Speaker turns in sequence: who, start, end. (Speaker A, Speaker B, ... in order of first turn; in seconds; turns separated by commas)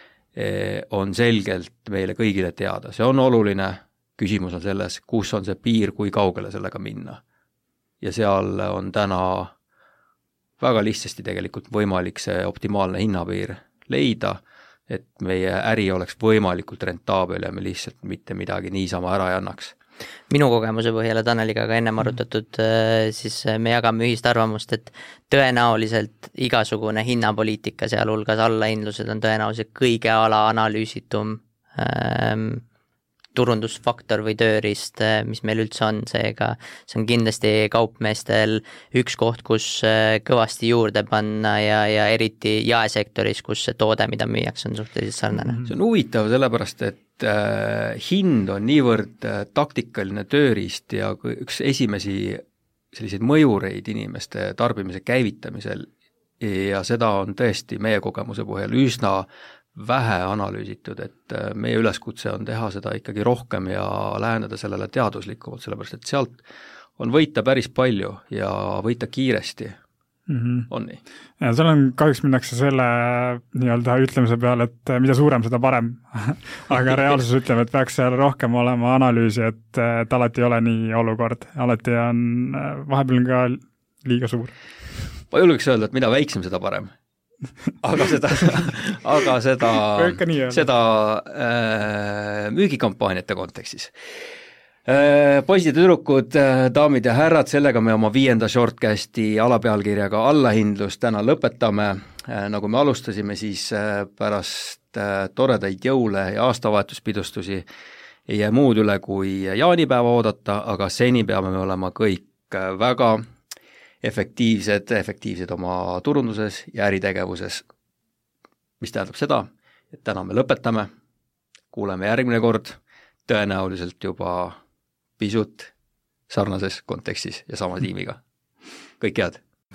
Speaker A: 0.3-7.2, Speaker A: 8.0-9.5, Speaker A: 10.6-19.7, Speaker B: 20.3-32.6, Speaker B: 33.3-45.6, Speaker A: 45.6-66.4, Speaker A: 67.0-69.8, Speaker C: 70.3-70.7, Speaker A: 70.7-71.0, Speaker C: 71.4-84.5, Speaker A: 85.3-86.9, Speaker A: 87.8-93.9, Speaker C: 90.0-90.6, Speaker A: 94.8-107.7, Speaker A: 108.3-113.2, Speaker A: 114.0-117.6, Speaker A: 118.8-120.9, Speaker A: 121.7-124.6, Speaker A: 125.2-125.7, Speaker A: 126.3-128.2, Speaker A: 129.0-129.4